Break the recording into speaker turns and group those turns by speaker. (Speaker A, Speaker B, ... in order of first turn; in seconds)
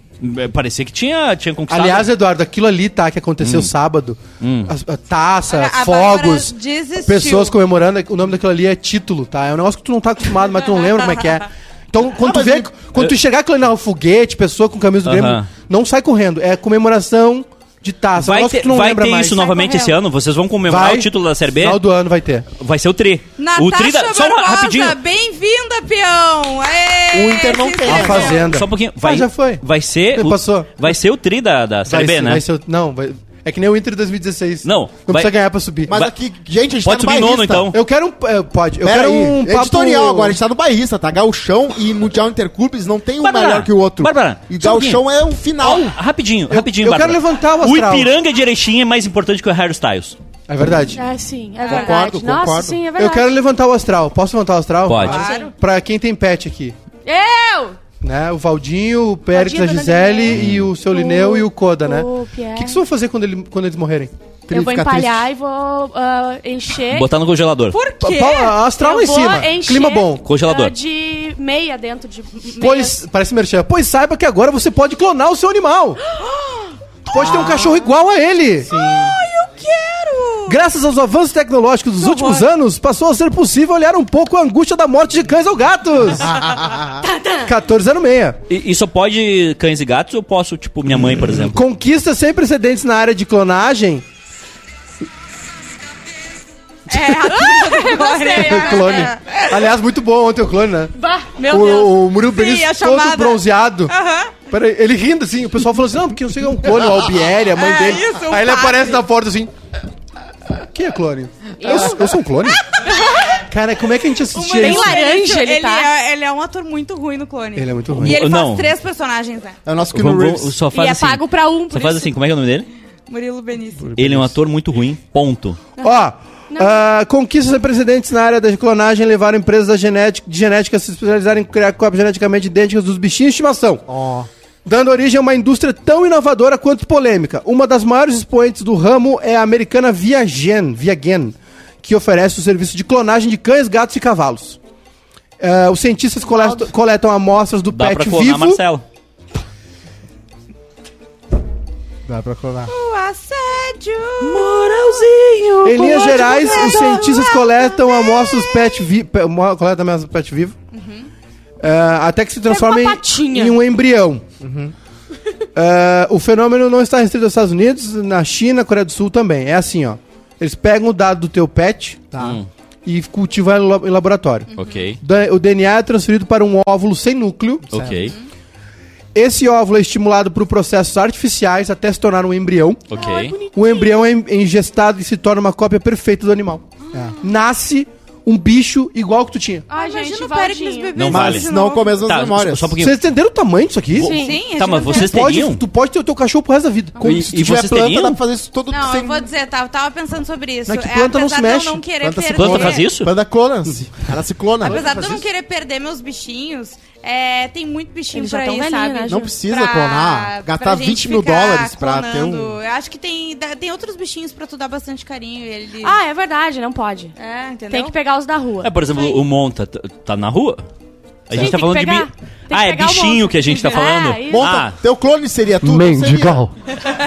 Speaker A: 0.2-2.1, 3.4-3.7, 4.4-4.7, 15.1-15.5, 18.2-21.8, 22.6-25.0, 28.3-32.4, 34.6-35.3, 36.9-37.8, 43.2-45.0, 45.6-50.2, 54.9-55.3, 60.3-60.7, 66.9-67.8, 70.2-70.8, 88.5-91.6, 117.9-118.8, 119.9-122.7, 124.0-125.6, 147.7-148.8, 154.2-155.9, 172.2-172.5, 174.6-175.0, 177.7-178.2, 182.9-183.4, 190.9-191.5, 192.0-193.0, 193.9-195.6, 197.0-198.2, 202.3-203.1, 218.6-220.6, 221.3-224.8
Speaker B: 1.7-6.5, 7.1-19.5, 20.7-22.5, 27.9-30.9, 31.9-35.9, 37.7-40.4, 46.5-48.1, 50.5-51.0, 53.0-56.8, 58.0-64.1, 68.0-70.2, 72.6-76.0, 77.1-78.7, 80.5-86.4, 87.5-88.4, 91.2-94.0, 98.3-100.9, 101.5-103.9, 104.5-109.5, 110.6-112.6, 113.5-115.0, 117.5-118.2, 124.0-124.3, 125.8-133.8, 134.7-144.6, 145.4-148.6, 155.6-160.6, 161.6-164.2, 165.6-172.1, 172.8-177.7, 179.1-182.9, 183.4-186.6, 187.2-189.7, 192.8-194.1, 194.9-197.3, 200.7-201.8, 204.6-205.3, 225.6-226.5
Speaker C: 5.5-7.6, 19.4-20.0, 23.4-28.5, 51.6-52.0, 55.0-55.5, 67.7-68.5, 76.2-76.7, 78.7-80.6, 82.0-82.4, 96.9-99.5, 101.4-104.4, 107.5-109.0, 112.7-113.4, 114.3-119.6, 123.1-124.0, 152.7-154.5, 155.7-158.9, 160.7-161.1, 174.6-174.8, 189.7-192.0, 194.1-195.3, 198.7-202.9, 204.6-216.0, 217.2-217.9
Speaker D: 12.2-12.7, 27.1-28.4, 35.9-37.7, 38.8-45.9, 51.7-52.8, 64.5-65.3, 77.1-77.8, 78.6-79.2, 86.2-87.0, 119.7-120.6, 133.9-134.3, 152.1-152.7, 164.4-164.7, 172.1-172.4, 177.7-178.2, 191.1-192.8, 197.0-199.3, 202.0-204.9, 209.1-212.6, 224.3-226.5
Speaker E: 50.9-53.4, 55.1-55.5, 57.0-57.8, 59.3-62.8, 64.5-67.1, 68.2-73.0, 87.0-87.5, 97.2-99.1, 101.0-101.6, 111.6-112.1, 114.6-115.9, 120.7-122.1, 125.8-126.9, 155.9-157.0, 162.5-163.6, 183.0-184.1, 189.7-191.0, 194.0-194.4, 208.1-209.3, 215.8-217.1, 217.7-218.7, 221.3-224.6